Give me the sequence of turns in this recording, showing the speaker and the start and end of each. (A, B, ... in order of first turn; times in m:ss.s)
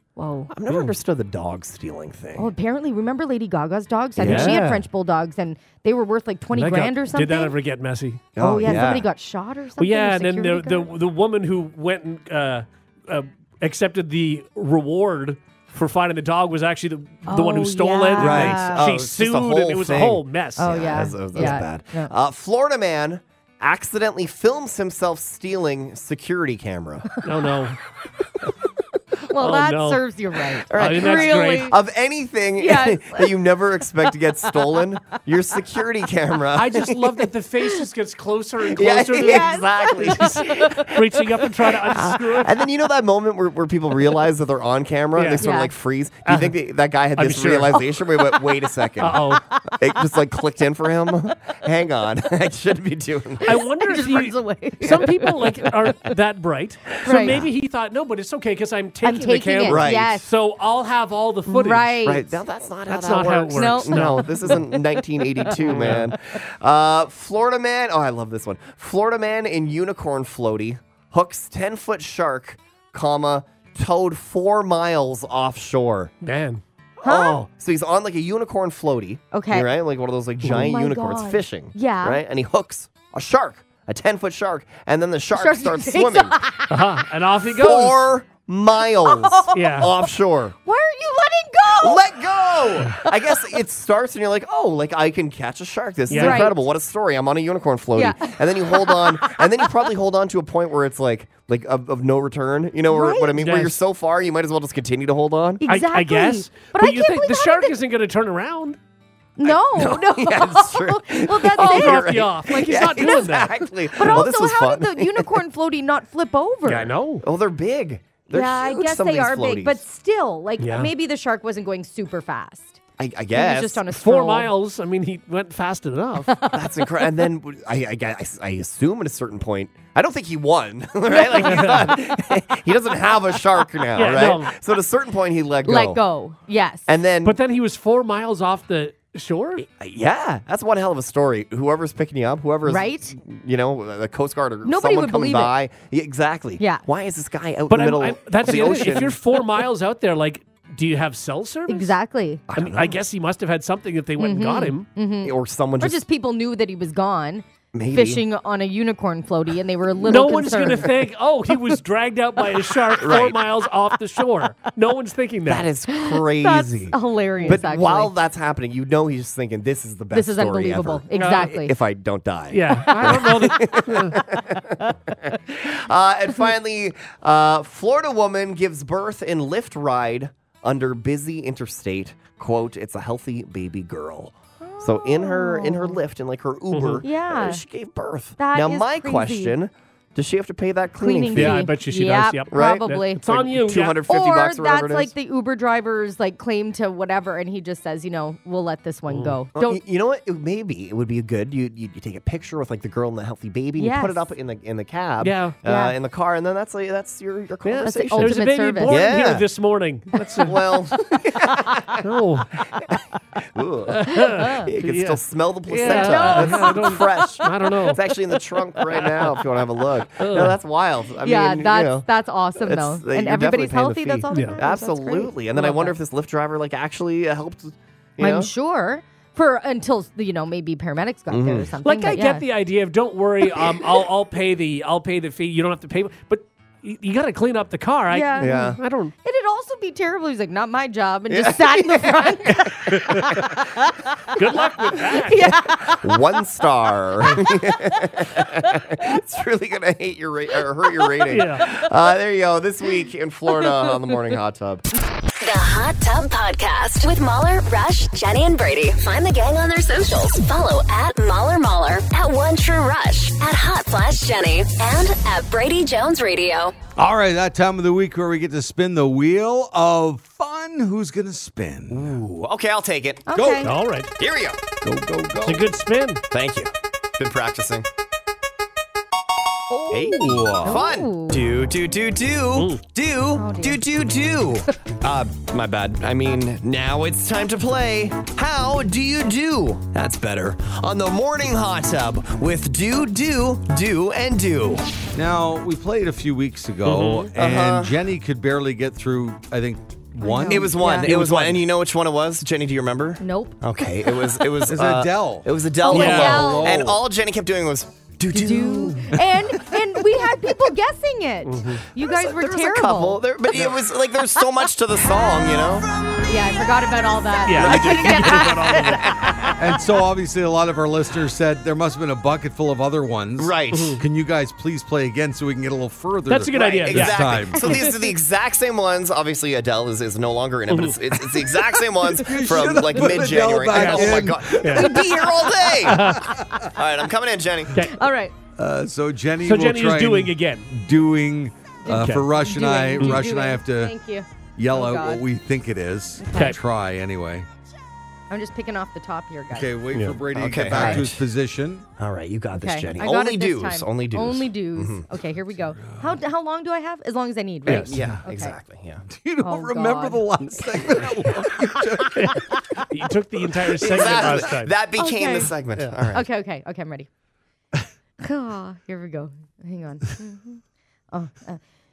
0:00.2-0:00.5 A
0:00.5-0:02.5 B
0:00.7-0:00.9 C
0:02.4-0:07.6 A
0:04.2-0:04.8 B
0:04.2-0:04.8 C
0:06.5-0:09.0 C
0:08.4-0:09.1 B
0:08.4-0:10.9 A
0:09.8-0:21.6 C
0:17.3-0:18.9 A
0:18.2-0:27.2 B
0:20.6-0:22.1 A
0:27.2-0:27.8 C
0:29.2-0:31.8 A
0:29.4-0:30.0 C
0:30.7-0:37.1 B
0:30.7-0:31.8 C
0:32.6-0:33.4 A
0:34.5-0:34.8 A
0:36.5-0:42.7 C
0:38.7-0:41.0 B
0:39.2-0:41.0 A
0:41.8-0:53.6 B
0:45.1-0:45.4 C
0:45.4-0:45.7 A
0:46.3-0:46.6 C
0:47.2-0:48.0 C
0:49.0-0:49.4 C
0:49.1-0:49.8 A
0:53.4-0:56.1 A
0:53.4-1:02.0 C
0:57.0-0:57.4 A
0:59.0-1:00.3 A
0:59.7-1:00.2 B
1:01.5-1:02.3 A
1:02.0-1:16.1 B
1:02.9-1:04.6 C
1:03.5-1:06.0 A
1:05.6-1:06.1 C
1:16.2-1:16.6 C
1:17.0-1:26.4 B
1:17.0-1:17.4 A
1:19.3-1:19.7 A
1:20.4-1:22.2 A
1:25.3-1:27.0 A
1:26.7-1:28.1 C
1:27.4-1:30.6 B
1:29.0-1:30.0 A
1:29.5-1:29.9 C
1:30.6-1:32.1 A
1:31.8-1:45.6 B
1:33.0-1:33.4 A
1:36.1-1:36.5 C
1:36.1-1:36.6 A
1:38.0-1:39.4 A
1:42.9-1:43.4 A
1:43.4-1:43.8 C
1:45.6-1:47.7 A
1:45.7-1:48.8 C
1:49.4-1:53.3 A
1:49.4-1:55.3 B
1:51.6-1:54.3 C
1:53.9-1:56.9 A
1:56.7-1:57.2 C
1:57.2-1:59.8 B
1:58.3-2:02.8 A
2:00.6-2:00.9 C
2:03.0-2:03.9 B
2:03.3-2:04.5 A
2:03.9-2:06.3 C
2:06.3-2:07.2 A
2:06.5-2:16.0 B
2:11.1-2:12.0 A
2:11.4-2:11.9 C
2:14.0-2:14.5 C
2:15.6-2:16.9 A
2:16.9-2:17.4 B
2:17.2-2:19.6 C
2:19.6-2:29.2 B
2:22.7-2:23.2 A
2:24.6-2:25.6 A
2:26.6-2:26.8 A
2:27.7-2:31.9 C
2:28.5-2:29.1 A
2:31.7-2:32.4 A
2:32.5-2:33.0 B
2:32.5-2:34.9 C
2:34.2-2:40.9 A
2:35.2-2:36.0 B
2:37.7-2:38.2 B
2:40.0-2:45.7 C
2:43.0-2:43.4 B
2:45.4-3:11.7 B
2:45.9-2:48.1 A
2:50.1-2:51.8 A
2:51.2-2:51.5 C
2:52.5-2:54.2 C
2:52.8-2:53.6 A
3:04.6-3:06.0 A
3:06.7-3:07.0 C
3:07.0-3:07.6 A
3:08.4-3:09.6 A
3:11.0-3:13.2 A
3:11.4-3:14.0 C
3:12.5-3:15.1 B
3:14.1-3:19.8 A
3:19.1-3:19.4 C
3:19.6-3:29.5 B
3:23.8-3:24.2 A
3:25.2-3:25.6 C
3:25.6-3:26.0 A
3:27.6-3:30.8 C
3:27.8-3:29.1 A
3:30.4-3:32.0 B
3:32.0-3:32.8 C
3:33.5-3:42.1 B
3:33.9-3:38.1 C
3:34.1-3:34.7 A
3:35.8-3:37.4 A
3:38.9-3:39.5 C
3:40.2-3:40.6 C
3:41.2-3:46.0 A
3:42.6-3:48.5 B
3:44.3-3:44.6 C
3:48.2-3:52.4 A
3:51.3-3:51.7 B
3:51.8-3:59.1 C
3:58.1-4:04.4 A
3:58.4-3:58.8 B
4:01.3-4:03.6 B
4:02.9-4:03.3 C
4:04.4-4:05.4 C
4:05.2-4:06.2 A
4:05.4-4:14.9 B
4:07.3-4:08.8 A
4:11.1-4:11.9 A
4:11.3-4:11.7 C
4:13.6-4:14.1 A
4:15.4-4:26.8 D
4:27.0-4:32.2 E
4:31.9-4:33.3 B
4:33.3-4:33.7 A
4:33.4-4:33.7 E
4:33.6-4:34.1 C
4:34.2-4:34.6 B
4:34.8-4:35.7 E
4:35.4-4:36.2 C
4:36.3-4:37.9 B
4:39.7-4:41.5 A
4:39.9-4:54.9 B
4:40.0-4:40.9 E
4:42.5-4:42.8 C
4:43.4-4:43.8 A
4:55.1-5:01.6 E
4:56.8-4:57.3 C
4:57.3-4:58.0 B
5:00.2-5:01.2 A
5:00.5-5:09.1 B
5:01.0-5:01.3 C
5:03.2-5:03.6 A
5:04.7-5:07.0 E
5:05.8-5:06.8 A
5:05.9-5:06.6 C
5:08.3-5:13.3 A
5:09.0-5:09.6 E
5:11.4-5:11.8 C
5:12.0-5:15.9 B
5:13.5-5:13.8 C
5:16.2-5:19.5 A
5:17.5-5:19.1 C
5:17.6-5:19.6 B
5:19.6-5:27.6 E
5:23.4-5:24.0 B
5:23.7-5:24.0 C
5:26.3-5:28.0 C
5:26.5-5:37.8 B
5:30.7-5:31.7 C
5:32.1-5:36.7 E
5:33.0-5:35.0 C
5:35.8-5:36.3 C
5:37.7-5:38.0 C
5:37.8-5:38.3 A
5:38.6-5:44.0 E
5:39.4-5:40.7 C
5:41.8-5:45.2 A
5:41.9-5:42.2 C
5:44.6-5:47.5 E
5:46.2-5:46.6 A
5:48.3-5:49.7 A
5:49.5-5:51.9 E
5:49.9-5:50.2 C
5:50.3-5:51.2 B
5:50.7-5:51.0 A
5:52.0-5:55.1 B
5:52.6-5:58.6 A
5:55.8-5:56.2 E
5:57.7-5:59.0 B
5:57.7-5:58.2 E
5:59.1-6:02.8 E
5:59.4-6:01.6 A
6:02.2-6:04.7 C
6:03.8-6:06.3 B
6:05.0-6:05.5 A
6:06.1-6:07.1 A
6:08.2-6:11.6 A